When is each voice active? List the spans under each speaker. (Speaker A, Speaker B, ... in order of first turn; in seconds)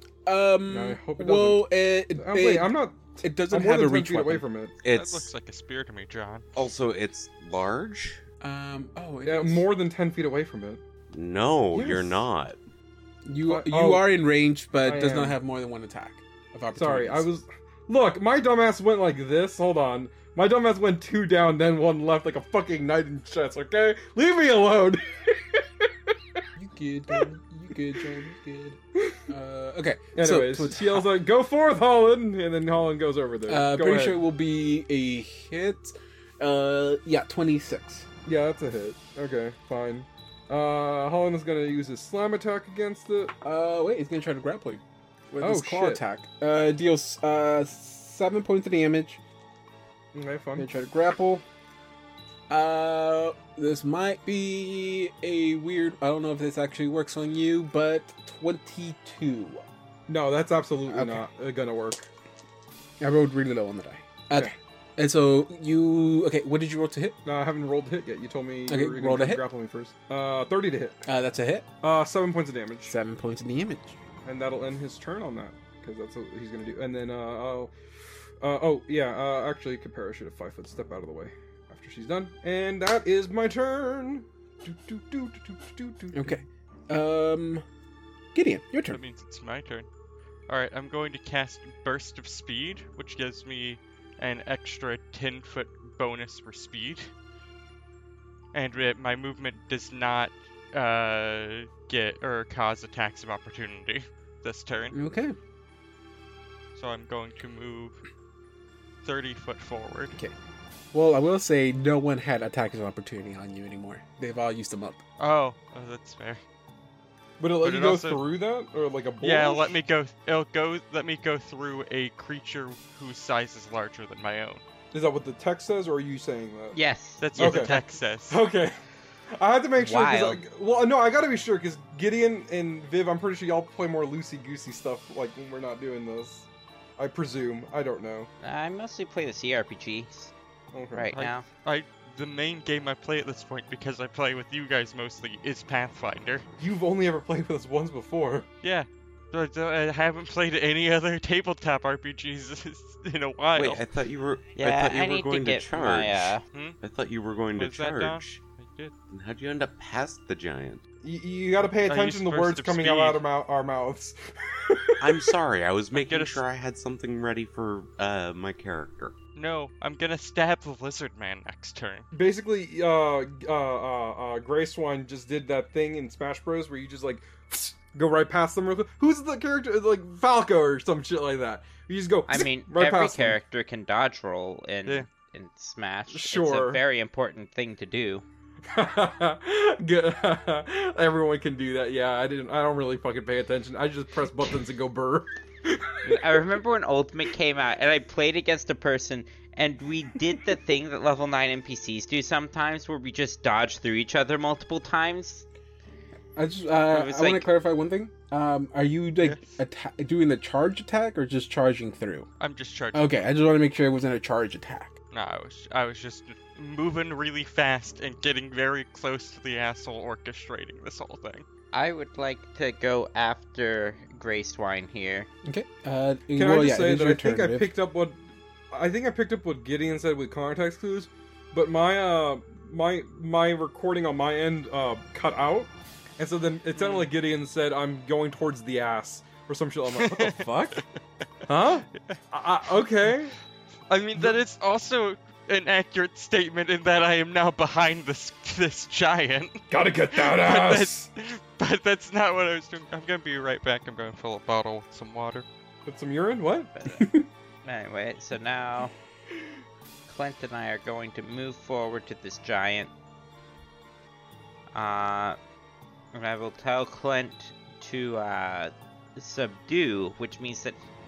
Speaker A: 0.3-4.5, 8.4-9.7, 13.3-17.3, 26.6-31.1, 33.5-38.1, 43.4-49.2, 50.6-51.4, 52.5-59.6, 60.9-61.3, 63.0-67.2, 68.7-69.4, 71.0-71.7, 72.9-74.0, 86.1-87.7, 88.3-89.0, 104.9-105.4, 110.9-115.0, 206.4-212.3, 212.9-215.0, 225.4-227.7, 256.9-257.2
Speaker B: 0.7-4.8, 9.2-10.8, 11.7-12.3, 13.5-14.1, 14.9-15.4, 16.8-26.1, 30.1-34.2, 38.2-43.3, 45.4-46.0, 50.1-50.7, 60.1-62.1, 67.2-71.0, 71.8-72.9, 74.2-77.7, 78.4-86.4, 117.4-119.8, 124.9-126.8, 127.4-128.8, 129.4-138.3, 140.7-141.1, 146.6-148.5, 161.0-165.4, 172.1-183.4, 186.1-186.8, 188.7-196.4, 226.4-228.2, 228.7-240.8, 241.5-243.4, 249.7-251.1, 255.9-256.7
Speaker C: 4.8-5.3, 6.5-8.2, 11.1-12.6, 153.6-158.4, 159.1-160.8, 165.0-169.2
Speaker D: 4.9-6.5, 88.9-89.9, 90.5-97.1, 98.5-105.0, 106.8-108.0, 109.0-110.2, 115.2-116.4, 117.6-118.2, 119.2-124.6, 127.2-128.4, 141.1-146.5, 148.6-153.8, 156.5-156.8, 157.6-158.9, 161.6-163.2, 165.9-166.4, 169.3-172.1, 209.2-209.6, 212.4-213.2, 215.1-221.4, 236.8-237.1, 239.9-240.8, 243.9-255.4
Speaker E: 126.7-127.8, 129.8-130.4, 138.4-140.3, 140.9-141.5, 154.6-156.4, 182.3-188.2, 196.1-205.4, 206.9-207.5, 221.7-225.3, 256.8-257.0, 257.6-258.9, 260.1-262.9, 264.7-265.4, 266.1-270.8